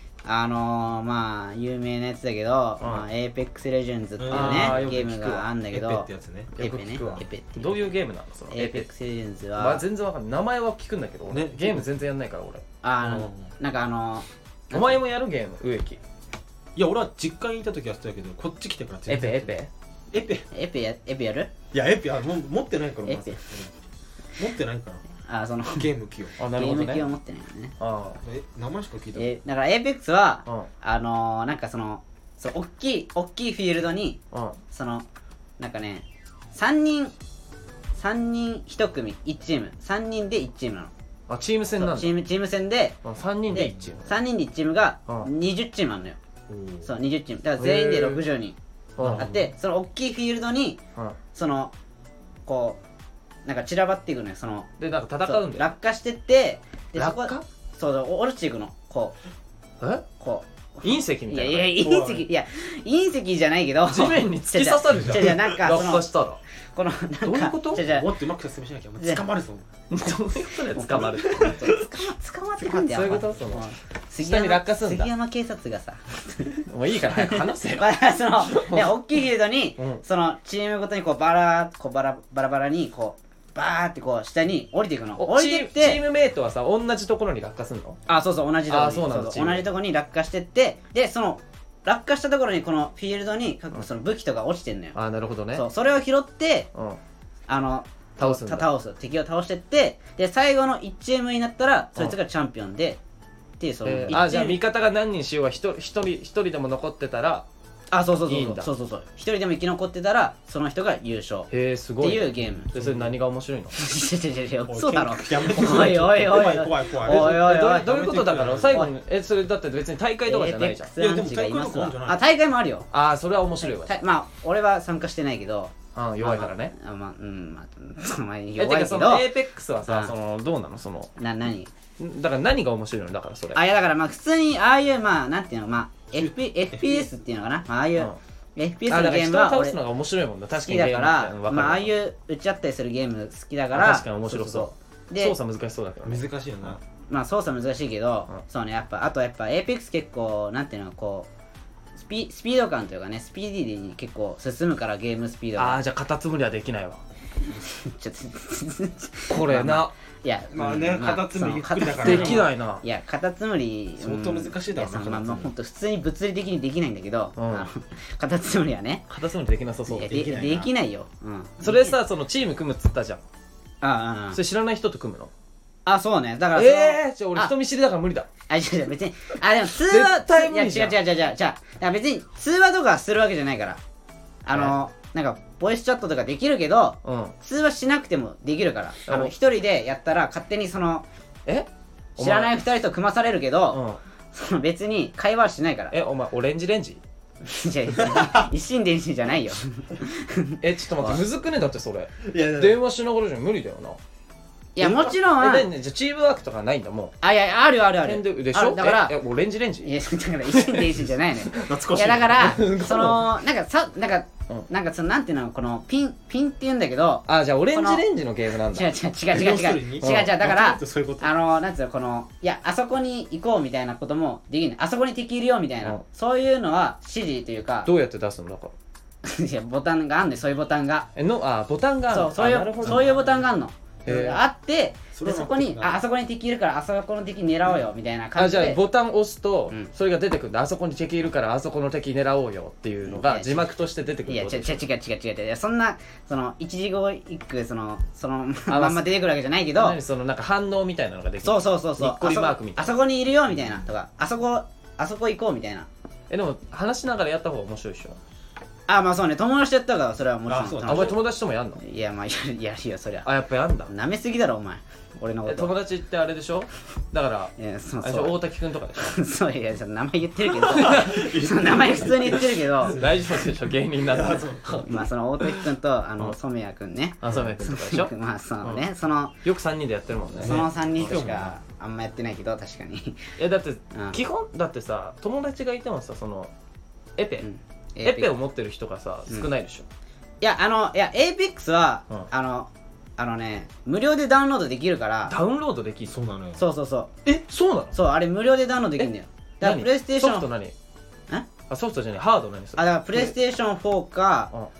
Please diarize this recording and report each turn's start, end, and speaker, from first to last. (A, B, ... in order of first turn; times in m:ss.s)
0:00.2-0:07.9 A
0:02.8-0:03.1 B
0:04.2-0:07.2 C
0:04.3-0:05.4 B
0:06.6-0:08.9 B
0:08.5-0:09.8 A
0:09.6-0:12.6 B
0:11.3-0:11.9 C
0:12.8-0:15.0 A
0:13.0-0:13.5 C
0:14.7-0:16.0 B
0:16.7-0:19.6 C
0:19.1-0:19.7 B
0:20.1-0:20.4 C
0:20.5-0:21.5 A
0:21.7-0:23.7 C
0:23.0-0:23.4 A
0:24.4-0:25.0 C
0:25.3-0:25.9 A
0:25.7-0:26.4 C
0:26.4-0:27.1 B
0:26.5-0:27.7 A
0:27.8-0:28.2 B
0:28.2-0:29.3 C
0:29.1-0:35.1 A
0:34.3-0:34.6 B
0:35.6-0:37.1 A
0:37.9-0:40.9 A
0:41.3-0:42.2 B
0:41.8-0:46.2 A
0:43.0-0:44.2 B
0:43.5-0:43.8 C
0:46.5-0:46.8 C
0:46.8-0:48.6 A
0:47.6-0:48.2 B
0:49.0-0:49.3 B
0:49.0-0:49.5 C
0:49.1-0:50.8 A
0:51.3-0:51.7 A
0:52.4-0:52.8 A
0:53.4-0:54.7 A
0:54.8-0:55.7 B
0:55.2-0:59.2 A
0:57.0-0:57.4 B
0:59.8-1:00.0 B
1:00.2-1:06.1 A
1:00.8-1:01.8 B
1:01.8-1:02.2 C
1:03.8-1:06.4 B
1:05.0-1:05.3 C
1:06.7-1:08.1 A
1:07.2-1:07.8 B
1:07.7-1:09.7 C
1:09.9-1:12.0 B
1:10.7-1:26.0 A
1:12.6-1:13.6 B
1:14.2-1:15.1 B
1:16.6-1:19.0 B
1:19.8-1:20.0 B
1:25.2-1:28.0 B
1:28.1-1:35.0 A
1:28.7-1:29.7 B
1:34.9-1:35.6 B
1:35.5-1:36.7 A
1:37.5-1:43.0 A
1:38.2-1:38.7 B
1:43.6-1:44.6 A
1:43.8-1:47.5 B
1:47.9-1:51.5 A
1:48.3-1:48.7 B
1:51.5-1:53.7 B
1:52.0-1:52.7 A
1:52.7-1:53.1 C
1:53.7-1:58.9 A
1:54.7-1:58.9 C
1:55.6-1:56.1 B
1:57.0-2:00.9 B
2:00.2-2:02.9 A
2:01.0-2:02.2 C
2:02.9-2:04.0 B
2:03.6-2:09.3 A
2:05.9-2:06.7 B
2:08.6-2:11.1 B
2:09.8-2:10.1 A
2:11.2-2:11.7 A
2:12.0-2:13.6 B
2:13.5-2:19.8 A
2:16.1-2:17.0 C
2:18.9-2:21.9 B
2:20.6-2:25.3 A
2:23.7-2:26.7 B
2:26.0-2:26.8 C
2:27.1-2:31.3 A
2:32.0-2:35.8 A
2:35.6-2:37.0 B
2:37.5-2:49.0 A
2:39.3-2:39.9 B
2:40.5-2:42.5 C
2:42.0-2:42.8 B
2:44.0-2:45.5 C
2:47.4-2:47.7 B
2:49.1-2:50.1 B
2:49.9-2:52.0 A
2:50.0-2:50.7 C
2:51.6-2:53.2 B
2:53.8-2:54.4 A
2:54.3-2:55.3 B
2:55.8-2:57.5 A
2:56.5-2:58.3 B
2:58.5-3:03.8 A
2:59.8-3:01.0 B
3:04.4-3:11.1 A
3:07.0-3:07.3 B
3:09.1-3:09.3 B
3:11.4-3:12.5 B
3:12.2-3:13.8 A
3:13.7-3:14.0 B
3:14.3-3:15.9 A
3:15.9-3:17.0 B
3:17.4-3:21.2 A
3:18.0-3:18.5 C
3:20.6-3:24.0 B
3:22.2-3:22.8 C
3:24.8-3:25.7 A
3:24.8-3:25.1 C
3:25.3-3:27.1 B
3:27.2-3:29.1 A
3:28.0-3:29.9 B
3:29.8-3:38.0 A
3:30.4-3:31.0 B
3:31.5-3:32.6 C
3:32.3-3:33.4 B
3:37.3-3:38.9 B
3:38.7-3:47.9 A
3:39.3-3:41.3 C
3:40.0-3:40.4 B
3:47.8-3:48.7 B
3:49.2-3:51.1 A
3:51.2-3:53.3 B
3:52.1-3:58.8 A
3:52.9-3:53.2 C
3:54.0-3:54.4 B
3:55.1-3:56.0 C
3:58.4-4:04.8 B
4:03.0-4:03.7 A
4:04.2-4:10.0 A
4:08.7-4:09.1 B
4:09.7-4:13.0 B
4:11.4-4:15.9 A
4:13.5-4:13.8 C
4:16.3-4:18.2 B
4:18.9-4:21.2 A
4:20.5-4:21.2 C
4:20.8-4:21.8 B
4:21.8-4:23.3 A
4:23.2-4:23.9 B
4:23.9-4:25.7 A
4:25.4-4:29.2 B
4:27.6-4:28.4 A
4:29.0-4:33.0 A
4:30.7-4:31.2 B
4:30.8-4:33.4 C
4:32.9-4:35.0 B
4:34.0-4:34.8 C
4:34.8-4:39.3 A
4:37.2-4:38.8 B
4:39.4-4:41.5 B
4:40.4-4:41.4 C
4:40.4-4:43.3 A
4:43.4-4:46.5 B
4:43.9-4:44.2 A
4:47.2-4:47.5 B
4:47.4-4:48.3 A
4:48.0-4:49.8 B
4:50.4-4:55.4 A
4:55.3-4:56.2 B
4:56.1-4:56.6 C
4:56.6-4:57.1 A
4:57.2-4:58.0 B
4:57.9-5:00.5 A
4:59.6-5:00.7 B
5:01.7-5:03.3 B
5:02.8-5:04.5 A